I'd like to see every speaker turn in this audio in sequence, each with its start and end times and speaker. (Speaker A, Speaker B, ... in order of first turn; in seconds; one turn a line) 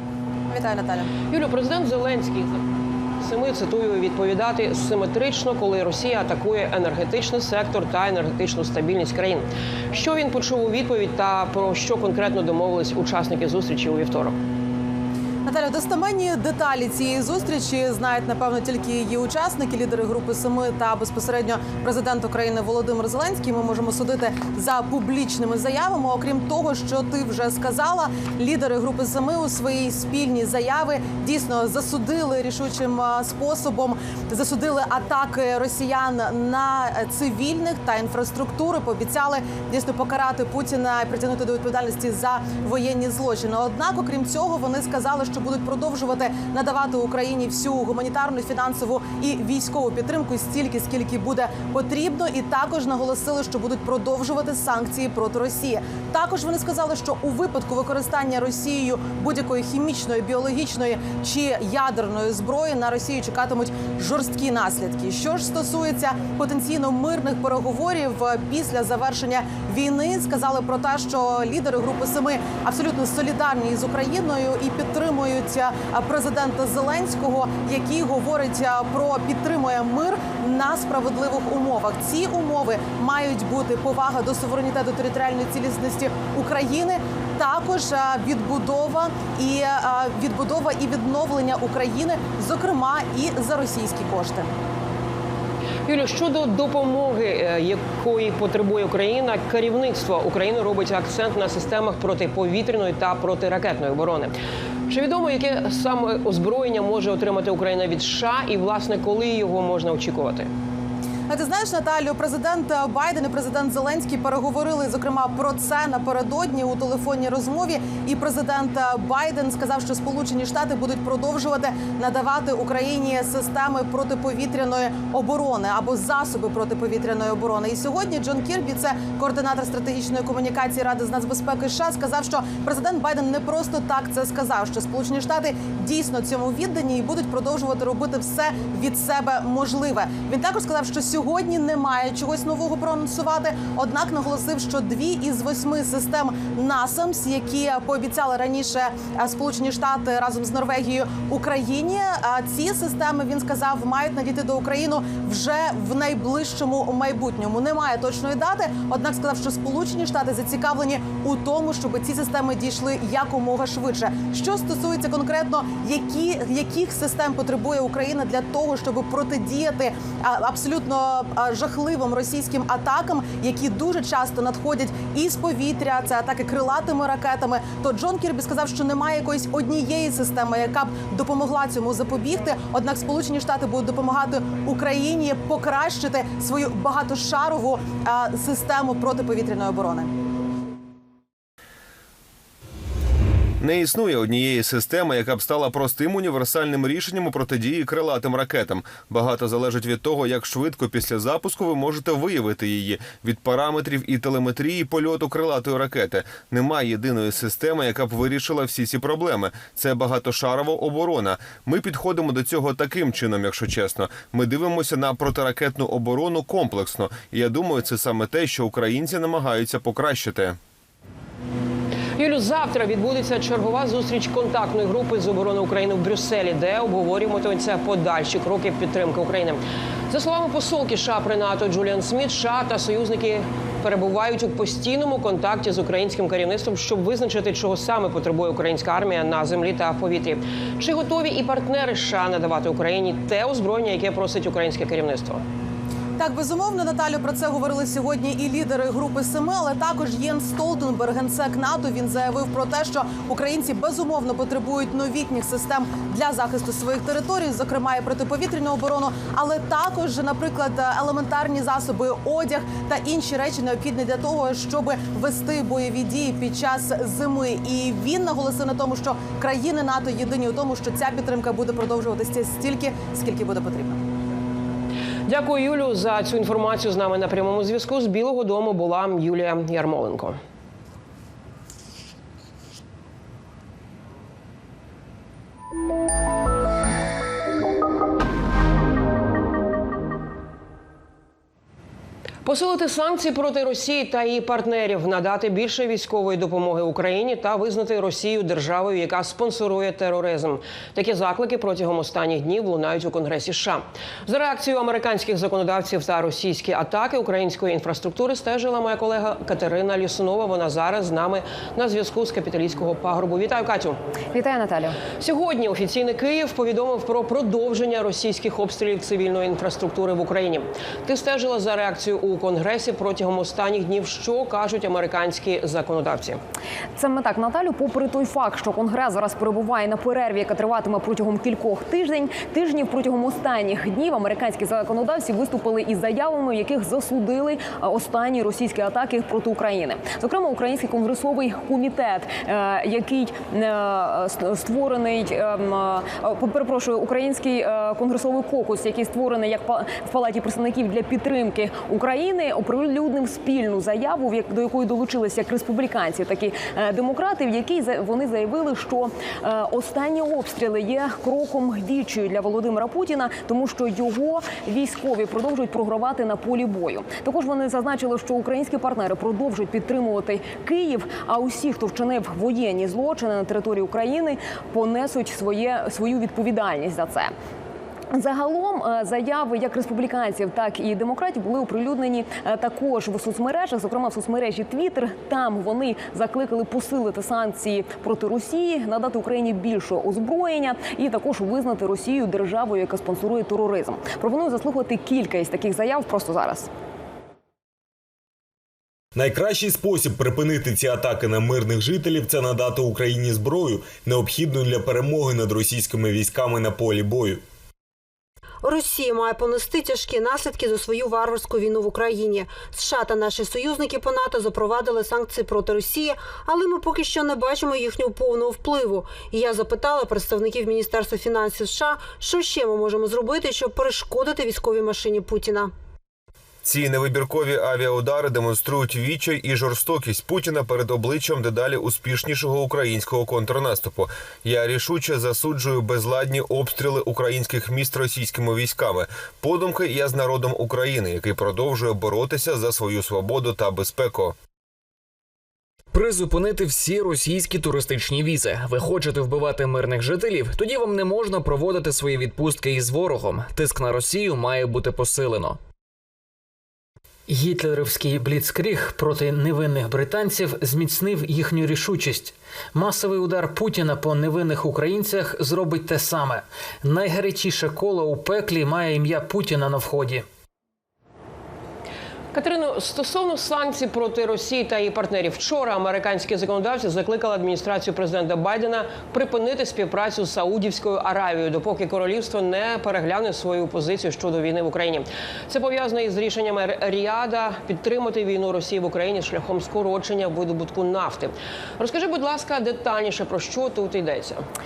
Speaker A: 0.5-1.1
Speaker B: 1.3-2.6
Speaker B: 3.2-14.4
Speaker A: 15.4-94.5
Speaker B: 95.8-104.3
Speaker B: 104.9-110.5
Speaker A: 111.3-190.1
Speaker C: 193.6-220.6
Speaker B: 222.2-245.4
Speaker A: 246.2-274.0
Speaker B: 275.3-280.4
Speaker B: 292.4-314.0
Speaker D: 314.3-315.0
Speaker B: 315.2-326.4
Speaker D: 326.9-377.3
Speaker D: 378.1-396.7
Speaker E: 399.1-407.4
Speaker F: 408.6-425.7
Speaker C: 426.6-444.3
Speaker G: 445.9-455.6
Speaker H: 457.3-470.2
Speaker B: 472.3-494.4